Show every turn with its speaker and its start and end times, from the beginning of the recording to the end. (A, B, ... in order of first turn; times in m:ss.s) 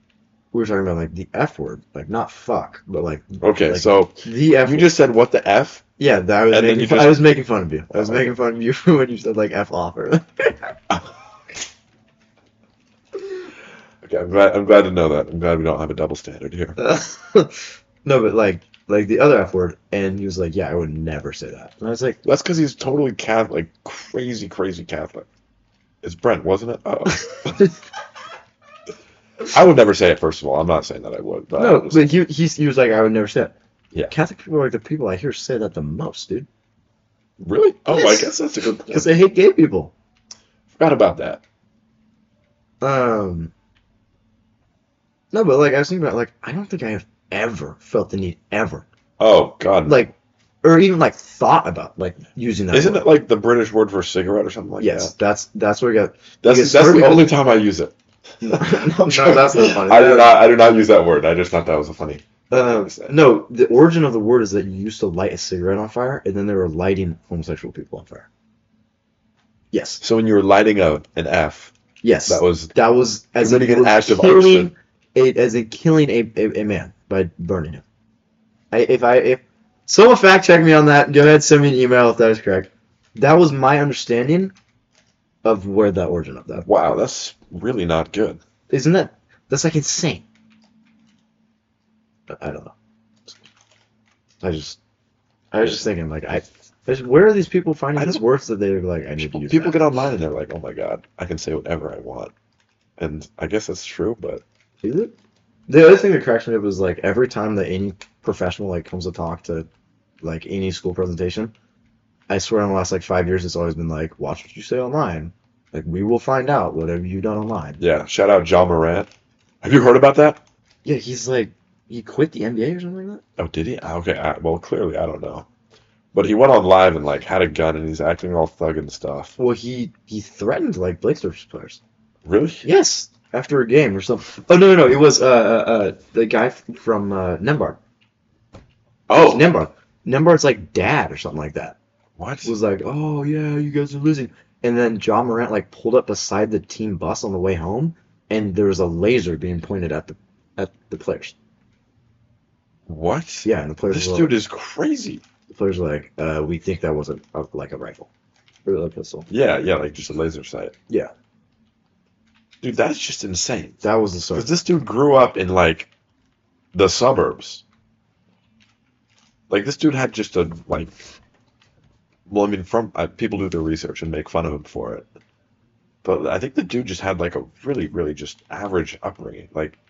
0:00.5-0:04.9 A
0:03.4-0:05.9 B
0:06.0-0:10.8 A
0:06.5-0:07.3 B
0:07.9-0:08.3 B
0:14.0-0:16.8 B
0:16.8-0:22.2 A
0:22.2-0:25.3 B
0:26.0-0:27.7 B
0:27.2-0:27.7 A
0:29.5-0:32.1 B
0:31.6-0:33.6 A
0:34.1-0:36.5 A
0:37.4-0:39.1 B
0:37.9-0:38.3 A
0:38.9-0:39.9 A
0:40.7-0:41.4 B
0:42.8-0:43.5 A
0:45.3-0:48.9 A
0:49.2-0:50.0 B
0:49.9-0:53.1 A
0:52.7-0:55.1 B
0:54.8-0:57.3 A
0:56.4-1:03.2 B
0:58.4-1:00.4 A
1:02.5-1:08.3 A
1:09.7-1:10.0 A
1:10.0-1:11.7 B
1:12.0-1:17.8 A
1:12.3-1:12.7 B
1:13.4-1:14.7 B
1:18.7-1:24.5 A
1:25.4-1:27.0 A
1:26.6-1:28.4 B
1:28.7-1:30.2 A
1:32.3-1:32.7 A
1:34.4-1:34.8 A
1:35.5-1:39.8 A
1:39.2-1:42.3 B
1:43.0-1:44.4 B
1:44.8-1:45.1 A
1:45.7-1:49.7 A
1:50.2-1:51.5 A
1:52.3-1:57.8 A
1:57.8-1:59.1 B
1:59.6-2:00.4 B
2:00.8-2:03.2 A
2:03.4-2:05.5 B
2:06.1-2:09.4 B
2:09.4-2:11.8 A
2:12.2-2:12.6 B
2:12.6-2:17.8 A
2:19.1-2:19.5 B
2:19.1-2:21.8 A
2:22.2-2:22.5 B
2:22.4-2:31.3 A
2:32.9-2:35.2 B
2:33.4-2:34.3 A
2:35.5-2:38.1 A
2:38.6-2:39.3 A
2:39.3-2:40.7 B
2:42.6-2:43.8 B
2:43.8-2:44.5 A
2:44.3-2:45.9 B
2:46.7-2:47.6 B
2:49.5-2:51.0 B
2:52.3-2:55.1 B
2:56.0-2:59.8 B